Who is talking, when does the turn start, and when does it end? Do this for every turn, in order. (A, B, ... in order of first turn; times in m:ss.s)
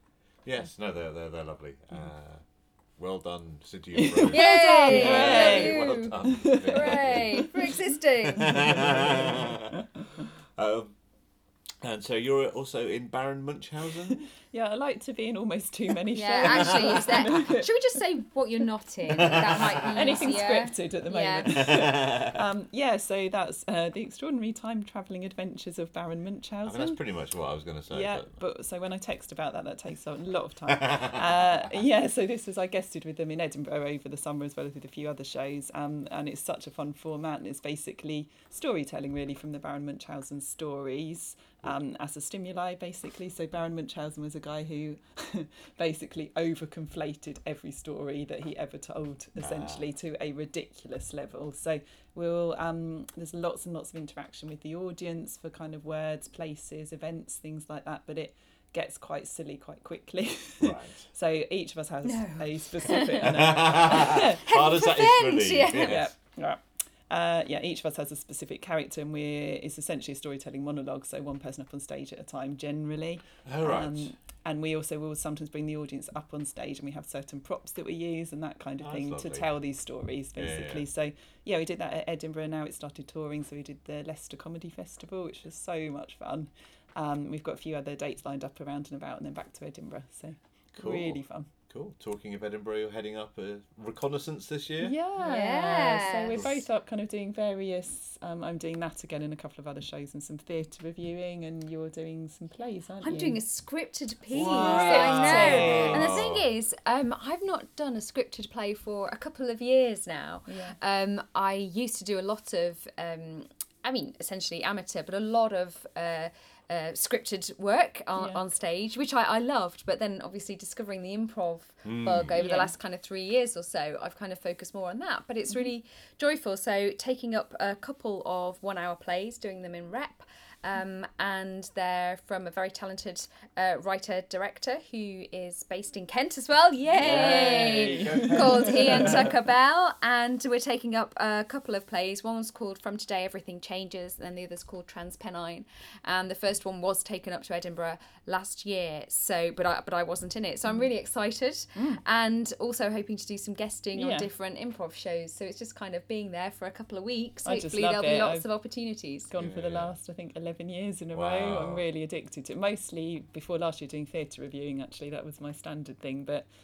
0:00.4-0:02.4 A
0:03.0-0:09.9 A
0:04.1-0:07.5 B
0:04.3-0:09.2 C
0:08.5-0:09.4 B
0:10.6-0:11.0 A
0:11.8-0:14.2 A
0:14.5-0:17.7 B
0:16.1-0:21.5 C
0:19.1-0:20.0 A
0:19.9-0:27.0 B
0:21.5-0:22.4 A
0:26.7-0:28.4 A
0:27.9-1:04.4 B
0:30.8-0:31.2 A
0:49.4-0:49.8 A
1:00.6-1:01.1 A
1:02.0-1:06.0 C
1:03.2-1:06.1 A
1:05.7-1:31.5 B
1:13.5-1:14.1 A
1:18.8-1:19.5 A
1:20.4-1:20.8 A
1:30.8-1:34.9 A
1:34.8-1:43.4 B
1:35.2-1:36.5 C
1:43.0-2:39.3 C
1:44.3-1:46.4 A
1:44.4-1:46.2 B
1:50.5-1:50.8 B
2:01.8-2:02.4 A
2:02.3-2:02.7 B
2:17.0-2:19.3 B
2:17.0-2:19.3 A
2:31.8-2:32.0 B
2:34.0-2:34.3 B
2:37.4-2:38.5 B
2:39.3-2:46.5 B
2:39.4-2:39.9 A
2:41.1-2:41.8 A